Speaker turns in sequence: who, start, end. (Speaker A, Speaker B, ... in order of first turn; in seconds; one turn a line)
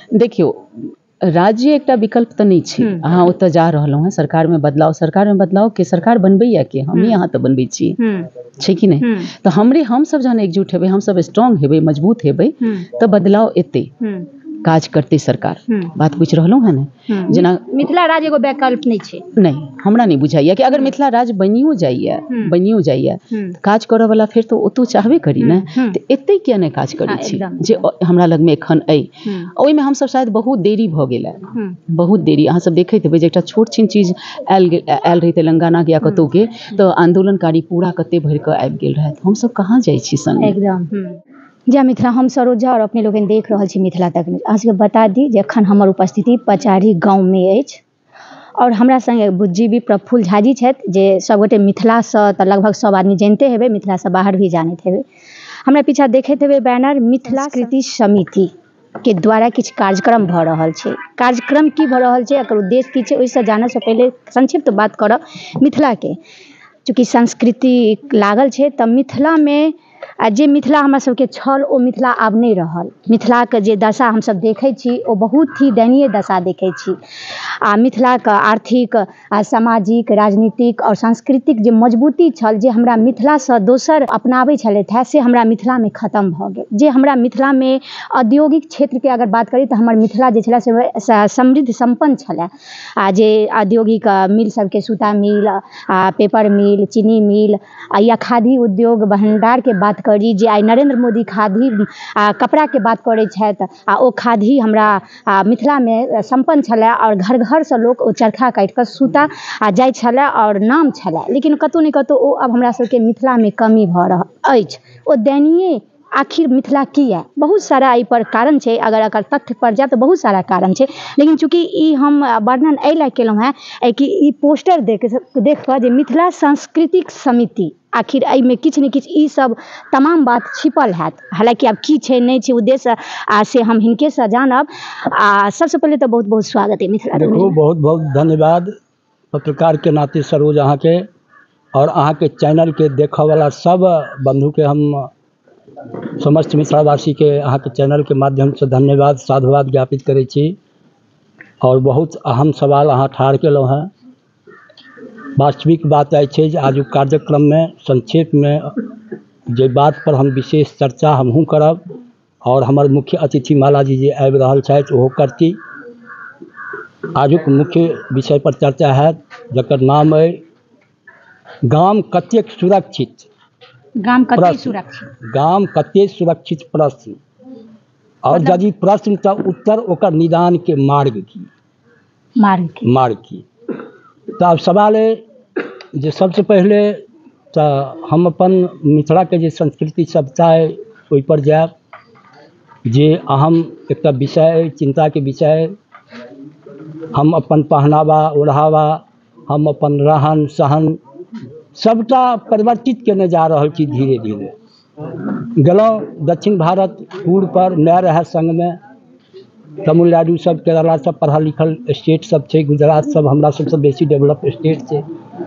Speaker A: 0.1-8.0
Speaker B: 6.9-7.2
Speaker B: 8.0-8.3
Speaker A: 8.6-13.9
Speaker B: 9.0-9.3
Speaker B: 14.0-14.3
Speaker A: 14.6-17.6
Speaker B: 17.1-19.3
Speaker A: 19.4-40.5
Speaker B: 22.3-22.5
Speaker B: 25.4-26.0
Speaker B: 27.1-27.9
Speaker B: 29.2-29.5
Speaker B: 40.4-47.8
Speaker B: 48.6-55.0
Speaker B: 55.6-66.2
Speaker B: 66.8-137.6
Speaker C: 137.1-138.7
Speaker C: 139.3-141.1
Speaker C: 141.7-145.1
Speaker C: 146.2-150.5
Speaker C: 151.6-153.9
Speaker C: 155.4-158.7
Speaker C: 159.5-161.8
Speaker C: 162.4-165.6
Speaker C: 167.1-170.4
Speaker C: 171.7-173.3
Speaker B: 174.0-175.1
Speaker C: 174.3-174.8
Speaker C: 175.3-177.2
Speaker C: 178.2-181.5
Speaker B: 178.3-178.6
Speaker B: 182.4-182.9
Speaker C: 182.8-183.4
Speaker C: 184.4-185.2
Speaker C: 185.9-187.0
Speaker C: 187.5-191.7
Speaker C: 192.9-195.7
Speaker C: 197.1-201.0
Speaker C: 201.7-204.5
Speaker C: 205.6-208.8
Speaker C: 209.8-215.0